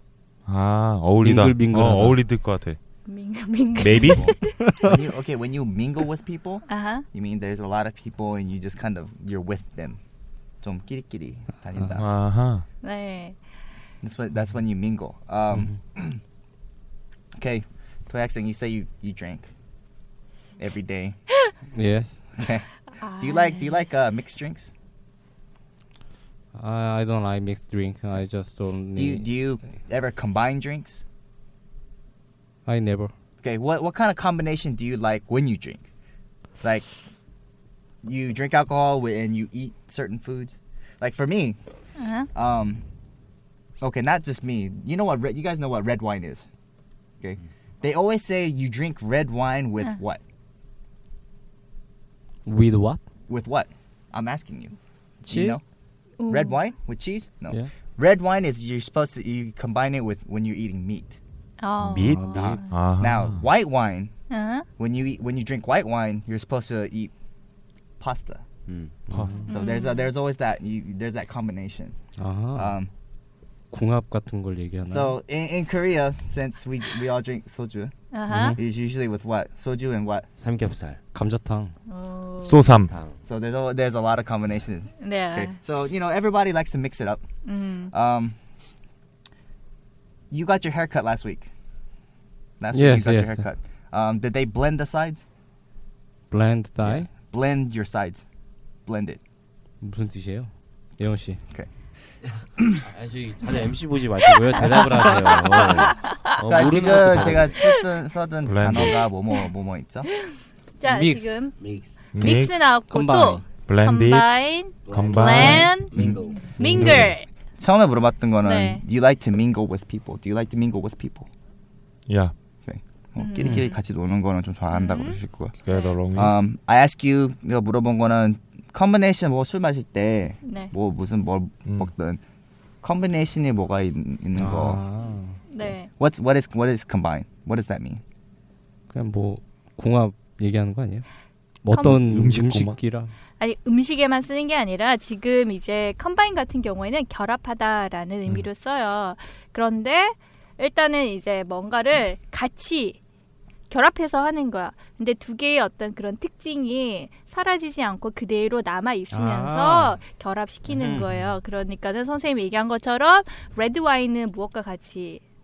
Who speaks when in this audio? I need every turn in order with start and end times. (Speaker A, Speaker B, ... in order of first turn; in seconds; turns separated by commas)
Speaker A: 0.5-2.8, Speaker B: 1.2-2.3, Speaker C: 3.0-4.6, Speaker A: 3.8-4.3, Speaker D: 4.1-10.0, Speaker B: 4.4-4.9, Speaker C: 6.7-7.0, Speaker D: 10.6-12.1, Speaker B: 11.7-12.0, Speaker A: 11.9-12.7, Speaker C: 12.8-13.4, Speaker D: 14.0-16.2, Speaker B: 15.5-15.8, Speaker D: 17.4-19.5, Speaker D: 20.6-21.2, Speaker B: 21.7-22.2, Speaker D: 22.4-24.7, Speaker C: 22.9-23.9, Speaker B: 26.5-29.4, Speaker D: 28.9-31.0, Speaker B: 32.7-33.1, Speaker D: 33.4-35.9, Speaker D: 36.6-37.0, Speaker D: 38.0-41.6, Speaker C: 42.0-42.3, Speaker D: 42.3-42.8, Speaker D: 43.8-46.4, Speaker D: 47.2-50.2, Speaker B: 52.5-53.0, Speaker D: 53.3-54.8, Speaker B: 55.2-55.6, Speaker D: 55.3-55.6, Speaker C: 56.2-56.6, Speaker D: 56.3-61.2, Speaker C: 61.6-62.8, Speaker B: 61.8-62.6, Speaker A: 61.9-63.4, Speaker D: 63.0-64.1, Speaker C: 64.3-64.7, Speaker D: 64.8-67.1, Speaker D: 68.0-68.4, Speaker E: 68.7-68.9, Speaker B: 69.1-69.4, Speaker A: 69.1-69.4, Speaker D: 69.5-72.0, Speaker C: 69.5-70.1, Speaker B: 72.2-72.8, Speaker D: 72.5-72.9, Speaker B: 73.7-75.2, Speaker D: 74.9-77.9, Speaker C: 78.1-78.6, Speaker B: 78.3-78.6, Speaker D: 78.5-80.3, Speaker E: 80.4-81.0, Speaker B: 81.1-81.8, Speaker C: 81.9-82.6, Speaker A: 82.5-82.9, Speaker E: 82.7-83.2, Speaker D: 83.2-87.2, Speaker C: 85.0-85.5, Speaker C: 87.5-87.9, Speaker D: 87.9-88.3, Speaker D: 90.3-91.5, Speaker D: 92.6-95.2, Speaker B: 92.7-93.5, Speaker B: 96.3-97.1, Speaker D: 97.2-98.2, Speaker D: 98.9-99.2, Speaker B: 99.8-101.4, Speaker E: 102.8-107.6, Speaker B: 105.3-106.0, Speaker D: 106.5-110.1, Speaker C: 106.9-107.7, Speaker A: 108.5-109.0, Speaker C: 108.8-109.4, Speaker C: 110.2-111.6, Speaker B: 110.8-111.5, Speaker E: 111.6-112.0, Speaker A: 112.1-112.7, Speaker C: 112.2-117.3, Speaker B: 112.7-113.5, Speaker A: 113.7-117.2, Speaker E: 114.8-116.6, Speaker B: 116.5-117.2, Speaker D: 117.6-121.3, Speaker C: 118.4-118.8, Speaker A: 122.1-122.3, Speaker D: 122.7-132.2, Speaker C: 123.2-123.8, Speaker C: 124.7-125.9, Speaker A: 125.6-126.3, Speaker C: 130.4-130.7, Speaker D: 132.8-134.8, Speaker B: 134.3-135.5, Speaker C: 135.5-135.9, Speaker D: 135.9-138.0, Speaker B: 138.9-141.1, Speaker B: 141.6-143.1, Speaker A: 141.7-142.8, Speaker C: 141.7-142.0, Speaker C: 143.4-153.0, Speaker C: 153.7-165.2, Speaker B: 159.1-160.0, Speaker B: 160.7-161.3